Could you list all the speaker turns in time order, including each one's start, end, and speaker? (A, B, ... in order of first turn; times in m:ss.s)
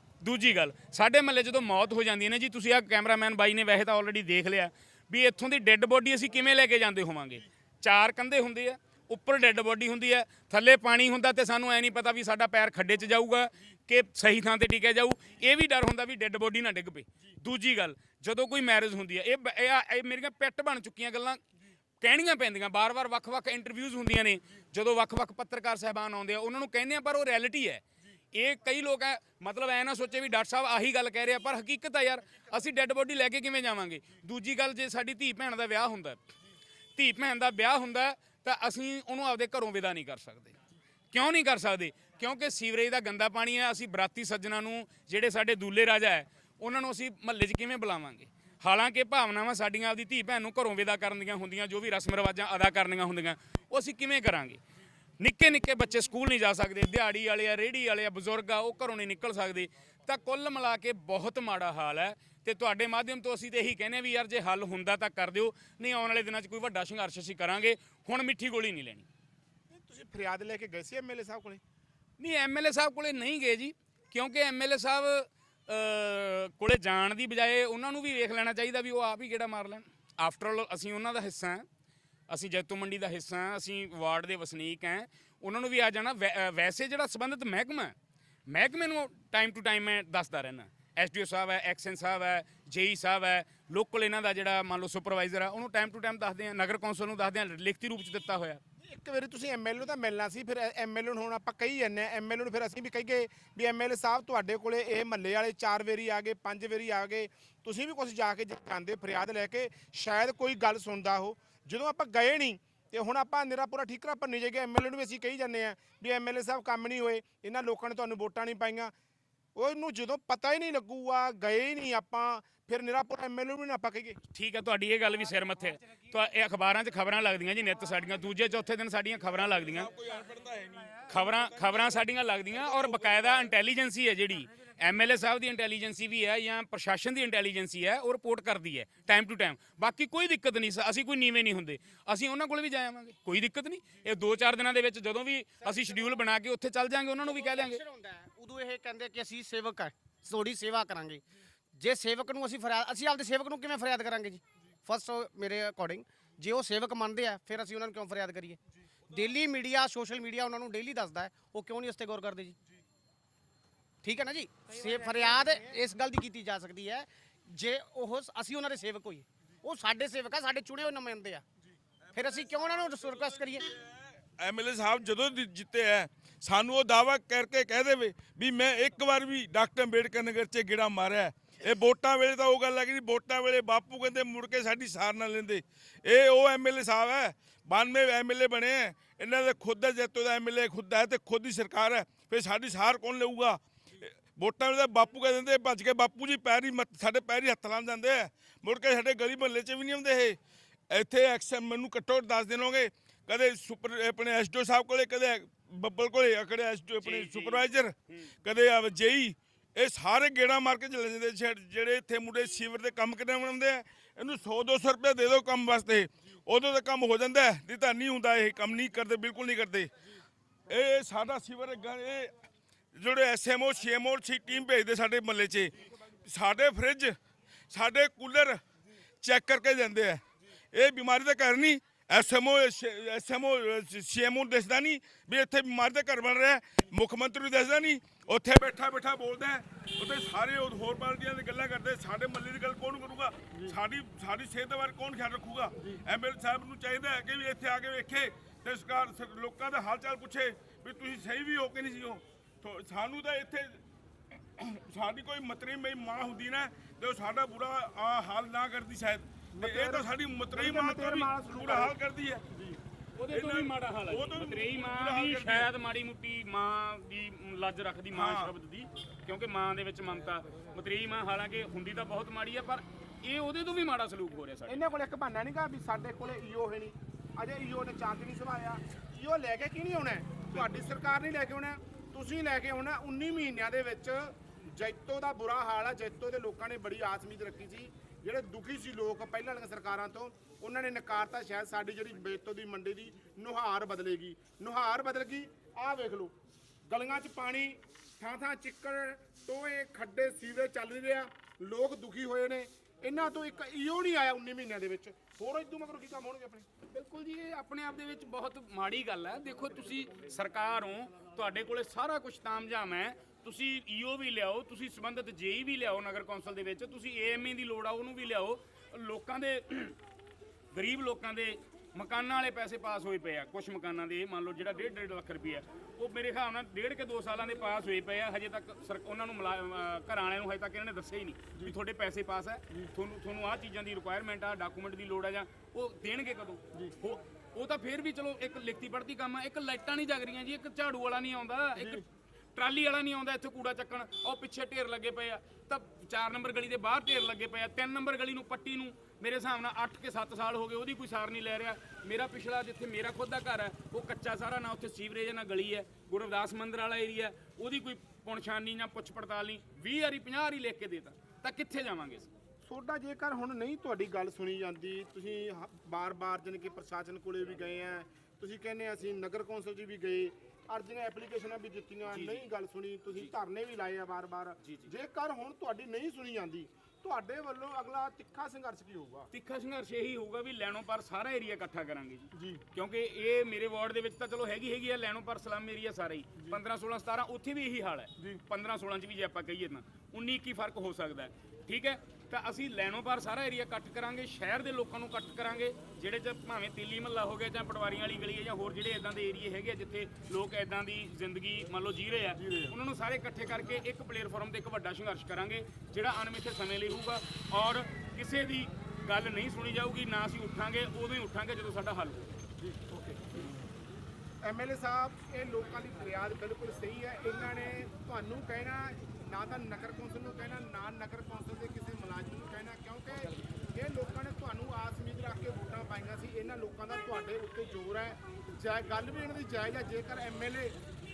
0:00.2-0:21.4 A
0:22.0-0:36.2 A
0:37.0-0:40.5 A
0:41.1-0:54.6 A
0:55.2-1:09.1 A
1:09.7-1:11.6 B
1:12.2-1:21.6 A
1:22.3-1:27.9 A
1:28.5-1:38.6 A
1:38.8-1:58.9 B
1:59.5-2:04.2 B
2:04.3-2:09.9 A
2:09.6-2:12.0 C
2:11.1-2:27.8 A
2:12.5-2:13.4 C
2:25.6-2:26.2 D
2:27.2-2:42.6 D
2:44.0-2:51.4 D
2:52.1-2:53.7 D
2:52.1-3:20.4 C
3:20.9-3:39.9 C
3:27.0-3:28.4 A
3:40.7-3:42.3 C
3:43.0-3:45.7 C
3:46.2-3:47.2 C
3:47.7-3:48.6 C
3:49.2-4:13.8 C
4:14.6-4:22.4 C
4:19.5-4:22.0 B
4:22.5-4:22.8 B
4:23.2-4:34.9 A
4:23.3-4:25.7 C
4:28.1-4:28.5 C
4:34.7-4:56.3 B
4:56.9-5:06.7 B
5:06.9-5:20.0 A
5:20.7-5:42.0 A
5:41.8-5:42.0 B
5:42.5-6:02.3 A
6:02.6-6:19.3 B
6:12.1-6:12.4 A
6:14.6-6:14.9 A
6:19.3-6:52.3 A
6:22.3-6:22.6 B
6:42.4-6:42.7 B
6:52.6-6:53.3 B
6:54.4-7:10.8 B